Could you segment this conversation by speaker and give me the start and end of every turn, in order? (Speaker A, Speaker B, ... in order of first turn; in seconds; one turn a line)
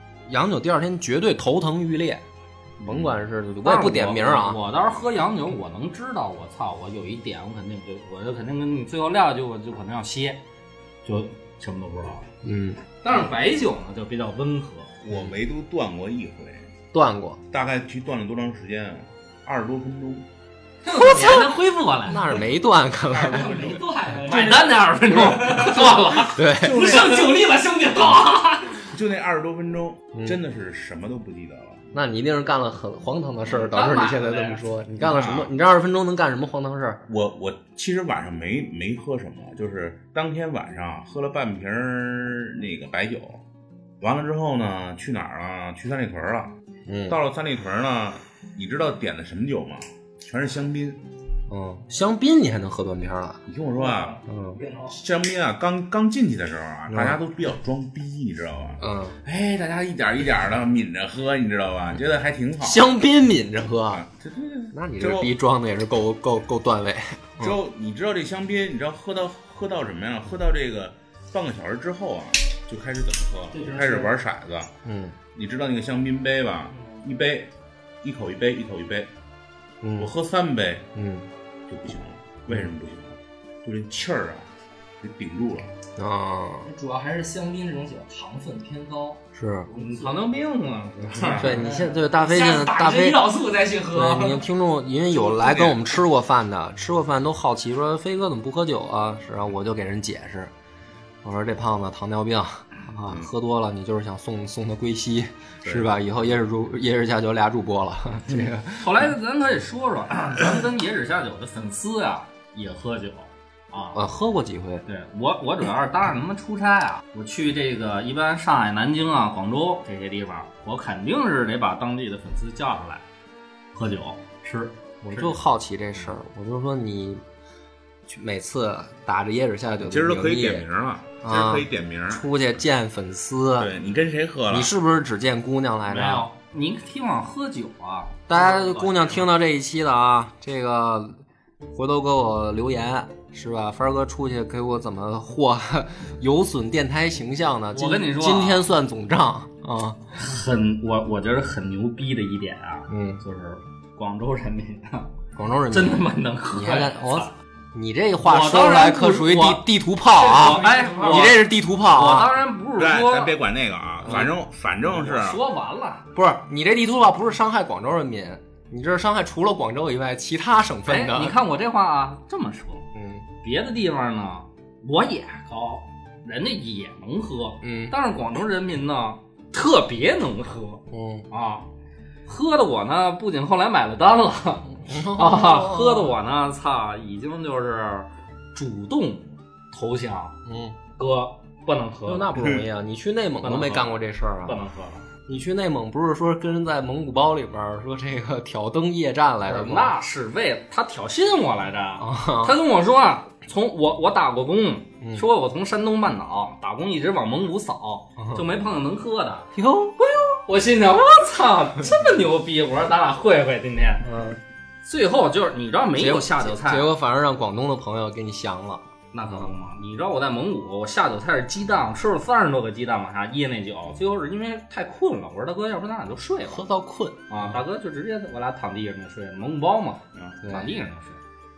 Speaker A: 0.3-2.2
Speaker A: 2.8-4.6
Speaker B: 2.9-3.1
Speaker C: 3.6-10.4
Speaker C: 11.0-12.3
Speaker A: 12.4-12.8
Speaker C: 13.0-14.9
Speaker B: 15.0-16.7
Speaker A: 16.9-17.4
Speaker B: 17.5-20.3
Speaker C: 20.9-22.4
Speaker A: 20.9-21.6
Speaker A: 22.1-23.8
Speaker D: 23.1-28.9
Speaker C: 24.1-26.4
Speaker A: 26.3-27.2
Speaker B: 26.9-27.3
Speaker B: 28.9-31.9
Speaker A: 31.9-37.0
Speaker C: 33.5-34.6
Speaker B: 35.0-35.5
Speaker B: 37.1-43.4
Speaker B: 44.0-46.5
Speaker A: 46.9-47.2
Speaker B: 47.1-51.0
Speaker A: 51.5-53.4
Speaker B: 53.5-54.2
Speaker D: 53.7-55.0
Speaker A: 54.3-54.6
Speaker B: 54.9-62.9
Speaker A: 56.9-57.2
Speaker A: 58.8-59.2
Speaker A: 62.6-64.0
Speaker B: 63.9-65.3
Speaker A: 64.7-67.6
Speaker B: 67.4-74.7
Speaker D: 73.5-74.1
Speaker A: 74.8-75.2
Speaker B: 75.3-77.5
Speaker B: 78.0-79.1
Speaker A: 79.8-80.1
Speaker B: 80.0-80.9
Speaker A: 81.0-81.3
Speaker B: 81.7-84.5
Speaker B: 85.0-85.7
Speaker A: 86.0-86.7
Speaker D: 86.7-90.2
Speaker A: 89.3-89.7
Speaker C: 89.8-91.6
Speaker A: 91.2-93.2
Speaker D: 91.4-94.4
Speaker A: 93.9-100.5
Speaker B: 95.1-95.8
Speaker A: 101.2-109.0
Speaker B: 105.7-105.9
Speaker C: 108.8-114.0
Speaker A: 114.0-114.8
Speaker C: 114.9-123.0
Speaker C: 123.7-125.4
Speaker A: 125.0-127.2
Speaker A: 128.1-130.7
Speaker B: 129.8-132.3
Speaker A: 131.2-133.7
Speaker B: 133.6-134.7
Speaker A: 134.5-136.3
Speaker C: 135.9-139.3
Speaker A: 138.3-141.2
Speaker A: 141.7-150.0
Speaker C: 147.7-148.7
Speaker C: 150.2-155.1
Speaker A: 152.9-153.2
Speaker A: 155.4-162.4
Speaker C: 155.7-157.3
Speaker C: 158.2-163.4
Speaker D: 160.2-161.3
Speaker B: 162.8-165.4
Speaker C: 164.1-164.3
Speaker C: 164.8-166.1
Speaker A: 166.1-171.4
Speaker C: 170.9-172.9
Speaker A: 172.9-173.3
Speaker C: 173.4-181.7
Speaker A: 177.6-177.9
Speaker A: 180.9-181.3
Speaker C: 182.3-190.4
Speaker A: 184.8-186.2
Speaker A: 190.4-190.8
Speaker C: 191.0-192.4
Speaker A: 192.1-194.6
Speaker B: 192.4-192.7
Speaker C: 193.4-195.1
Speaker A: 195.3-199.9
Speaker C: 199.4-209.5
Speaker A: 202.0-202.6
Speaker A: 208.2-208.5
Speaker A: 209.5-210.3
Speaker C: 210.4-214.1
Speaker A: 214.0-214.4
Speaker C: 214.8-216.9
Speaker A: 216.0-219.5
Speaker C: 219.1-226.7
Speaker A: 226.5-227.6
Speaker C: 227.3-231.2
Speaker B: 230.2-230.4
Speaker A: 230.4-230.7